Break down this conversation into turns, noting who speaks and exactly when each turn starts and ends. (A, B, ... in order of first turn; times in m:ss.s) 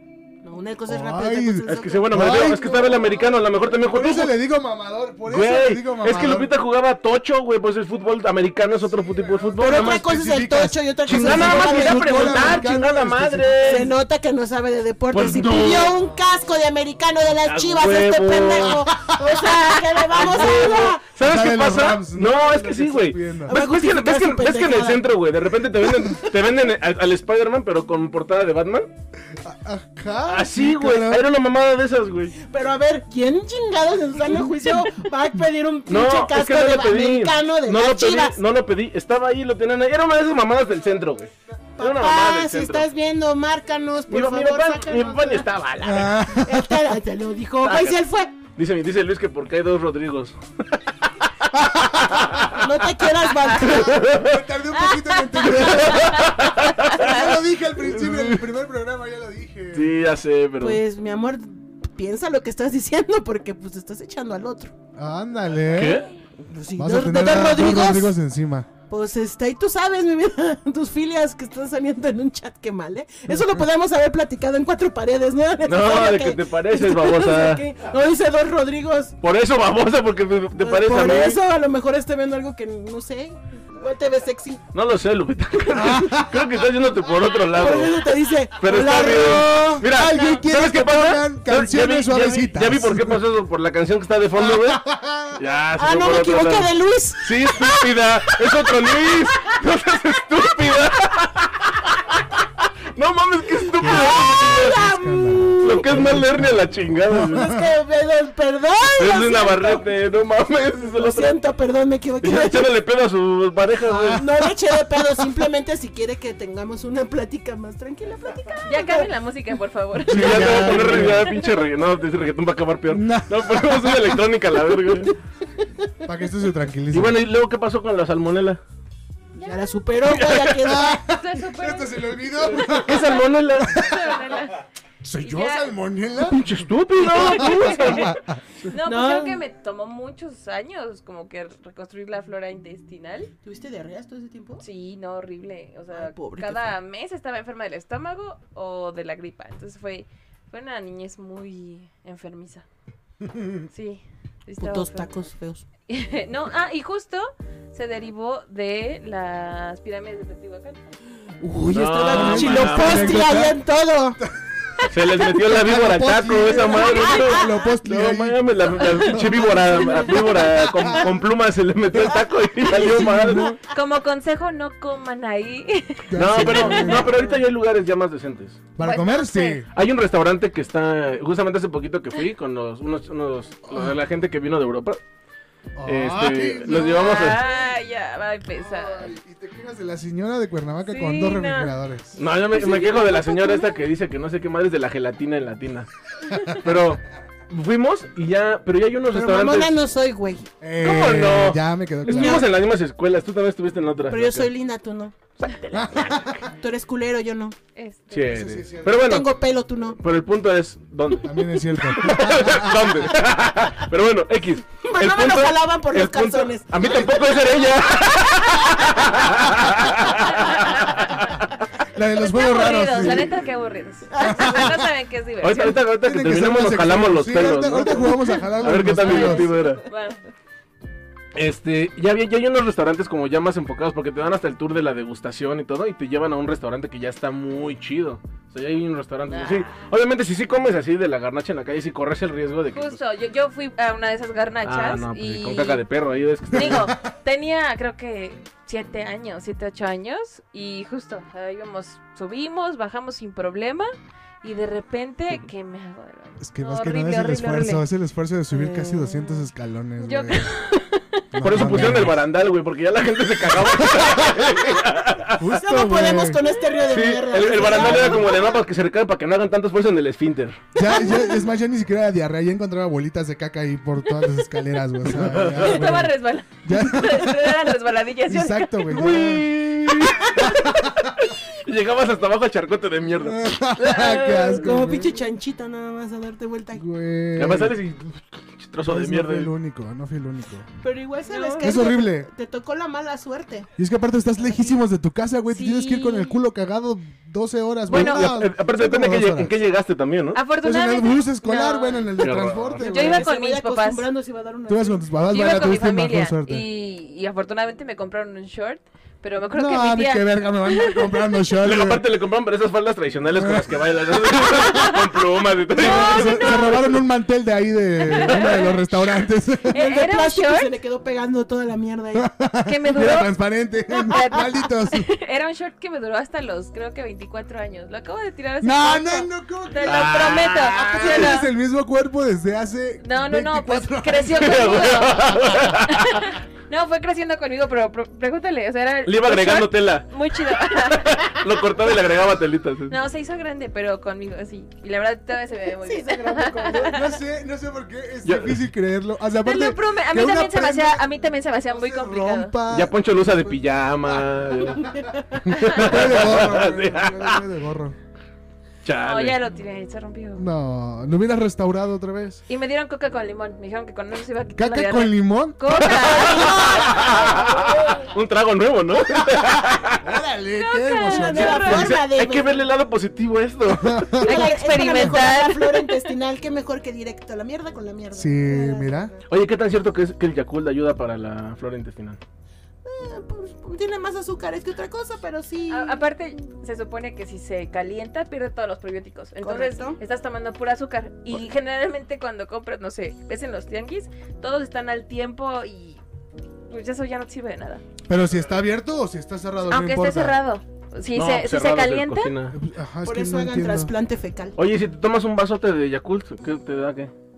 0:00.4-0:03.4 A
0:00.9-0:02.9 B
0:01.7-0:04.3 C
0:03.8-0:06.5 B
0:05.2-0:10.1 C
0:09.0-0:13.8 B
0:09.6-0:12.8 A
0:11.1-0:13.9 C
0:13.6-0:21.0 A
0:15.1-0:16.0 C
0:17.4-0:18.9 C
0:18.9-0:19.3 B
0:20.0-0:28.9 C
0:21.2-0:23.6 B
0:23.4-0:25.1 A
0:29.3-0:31.3 B
0:30.3-0:32.3 C
0:32.4-0:38.4 A
0:35.9-0:42.9 C
0:41.8-0:45.5 A
0:44.1-0:46.3 C
0:45.8-0:46.9 B
0:46.2-0:48.3 A
0:47.6-0:47.9 C
0:48.6-0:52.6 C
0:51.5-0:52.5 B
0:52.5-0:54.0 A
0:53.5-0:54.4 C
0:54.0-0:59.9 B
0:54.8-0:56.3 D
0:55.4-0:58.4 C
0:56.9-0:57.3 D
0:59.7-1:00.8 C
1:00.6-1:04.7 A
1:05.0-1:06.1 B
1:05.7-1:06.1 C
1:06.4-1:08.2 A
1:06.8-1:08.7 B
1:08.9-1:19.2 A
1:15.6-1:17.7 C
1:19.2-1:21.4 C
1:20.6-1:24.6 A
1:24.7-1:28.0 C
1:25.7-1:26.6 B
1:27.5-1:30.3 A
1:28.6-1:44.8 C
1:29.8-1:33.2 B
1:34.4-1:35.4 B
1:35.8-1:39.6 A
1:43.8-1:46.0 A
1:43.8-1:47.7 B
1:45.6-1:47.5 C
1:47.3-1:49.9 A
1:49.0-1:51.4 C
1:51.0-1:52.7 A
1:52.2-1:54.2 C
1:53.8-1:54.2 B
1:54.0-1:59.1 A
1:58.6-2:01.5 D
2:00.0-2:05.1 C
2:00.1-2:01.3 B
2:02.9-2:04.2 B
2:05.6-2:05.9 A
2:06.0-2:07.2 B
2:06.9-2:08.6 C
2:09.4-2:09.7 D
2:09.4-2:11.0 A
2:10.1-2:10.7 C
2:10.6-2:14.2 B
2:10.8-2:14.7 D
2:12.6-2:13.8 C
2:15.0-2:16.5 B
2:15.2-2:15.7 D
2:16.2-2:18.2 C
2:17.0-2:18.4 B
2:17.0-2:23.3 D
2:18.7-2:19.4 A
2:23.4-2:24.6 A
2:24.6-2:32.6 D
2:25.9-2:26.8 A
2:33.3-2:33.6 B
2:33.7-2:35.1 D
2:34.6-2:35.6 A
2:35.9-2:40.8 D
2:41.4-2:44.2 A
2:41.7-2:43.2 C
2:42.0-2:43.6 B
2:44.9-2:53.6 C
2:45.4-2:49.5 B
2:46.5-2:47.2 D
2:46.7-2:47.3 A
2:48.8-2:49.2 D
2:49.4-2:51.1 A
2:50.8-2:51.1 B
2:52.7-2:53.4 A
2:52.7-2:53.5 B
2:53.7-2:57.4 D
2:56.1-2:57.2 B
2:56.2-2:58.6 C
2:58.8-2:59.7 B
2:58.8-2:59.6 D
2:59.7-3:05.0 C
3:05.8-3:07.6 B
3:05.8-3:07.4 C
3:06.7-3:09.1 D
3:08.6-3:12.2 B
3:10.8-3:11.7 D
3:12.2-3:15.9 C
3:12.5-3:13.8 D
3:16.5-3:19.8 C
3:19.1-3:20.5 A
3:20.6-3:22.5 B
3:20.8-3:24.5 C
3:22.0-3:22.5 A
3:24.1-3:27.6 A
3:25.4-3:26.2 C
3:25.7-3:26.4 B
3:27.7-3:28.5 D
3:28.1-3:29.3 C
3:28.1-3:29.2 B
3:29.0-3:30.0 A
3:30.0-3:41.4 C
3:31.2-3:33.1 B
3:34.8-3:38.3 A
3:40.2-3:41.1 D
3:41.9-3:43.3 B
3:42.2-3:45.8 D
3:44.1-3:44.7 A
3:44.2-3:44.9 B
3:45.4-3:49.8 C
3:46.0-3:49.5 B
3:48.8-3:50.2 D
3:51.3-4:03.0 C
3:59.3-3:59.9 D
4:02.7-4:05.8 D
4:04.6-4:06.9 C
4:06.5-4:07.0 B
4:06.5-4:13.9 D
4:14.4-4:17.8 D
4:16.4-4:20.5 B
4:18.5-4:19.4 A
4:20.0-4:21.2 D
4:21.3-4:22.2 B
4:21.4-4:25.4 C
4:23.7-4:24.6 B
4:25.4-4:26.4 B
4:25.4-4:28.6 A
4:26.4-4:26.9 D
4:26.9-4:30.6 C
4:27.6-4:28.4 D
4:30.7-4:37.7 B
4:30.8-4:31.5 A
4:35.0-4:36.1 C
4:35.5-4:39.2 D
4:38.2-4:39.5 B
4:38.9-4:44.7 C
4:40.2-4:41.1 B
4:43.2-4:45.2 B
4:43.9-4:44.4 D
4:44.6-4:46.8 A
4:46.8-4:47.8 B
4:47.4-4:49.5 C
4:48.8-4:50.7 B
4:50.8-4:53.7 A
4:51.2-4:51.8 D
4:51.6-4:52.3 B
4:53.8-4:59.5 B
4:55.5-4:56.4 D
4:57.9-5:00.4 C
4:57.9-4:58.3 D
5:00.3-5:04.1 D
5:00.6-5:03.3 B
5:02.2-5:02.8 C
5:02.8-5:05.1 A
5:04.7-5:06.7 B
5:05.3-5:11.4 D
5:09.5-5:12.0 B
5:11.6-5:17.0 C
5:13.4-5:14.7 B
5:14.4-5:15.1 D
5:15.7-5:16.9 D
5:15.7-5:19.8 B
5:18.0-5:18.8 D
5:18.3-5:18.6 C
5:19.6-5:20.7 D
5:19.7-5:22.3 A
5:22.1-5:25.1 B
5:22.6-5:23.3 D
5:23.9-5:31.5 D
5:28.6-5:35.3 B
5:29.8-5:31.4 C
5:33.0-5:41.5 D
5:34.2-5:36.1 C
5:39.0-5:42.9 C
5:42.9-5:47.1 D
5:45.8-5:47.0 A
5:46.7-5:54.9 B
5:48.2-5:48.6 C
5:49.4-5:52.6 D
5:52.7-5:57.4 C
5:55.4-5:58.0 B
5:58.8-5:59.4 C
5:59.0-6:00.4 D
6:00.4-6:02.4 B
6:02.5-6:07.2 D
6:04.6-6:07.1 B
6:05.7-6:10.2 C
6:06.2-6:08.1 A
6:09.1-6:11.9 B
6:10.5-6:12.0 D
6:11.0-6:12.7 A
6:11.4-6:14.2 C
6:13.7-6:15.2 B
6:14.2-6:19.3 A
6:14.2-6:16.0 D
6:18.1-6:19.1 B
6:19.3-6:22.2 C
6:22.8-6:26.0 A
6:25.7-6:36.0 D
6:29.4-6:30.0 A
6:36.7-6:37.8 D
6:38.1-6:40.4 B
6:39.7-6:42.3 D
6:41.1-6:42.6 C
6:42.5-6:43.9 B
6:43.0-6:44.6 A
6:44.6-6:47.1 C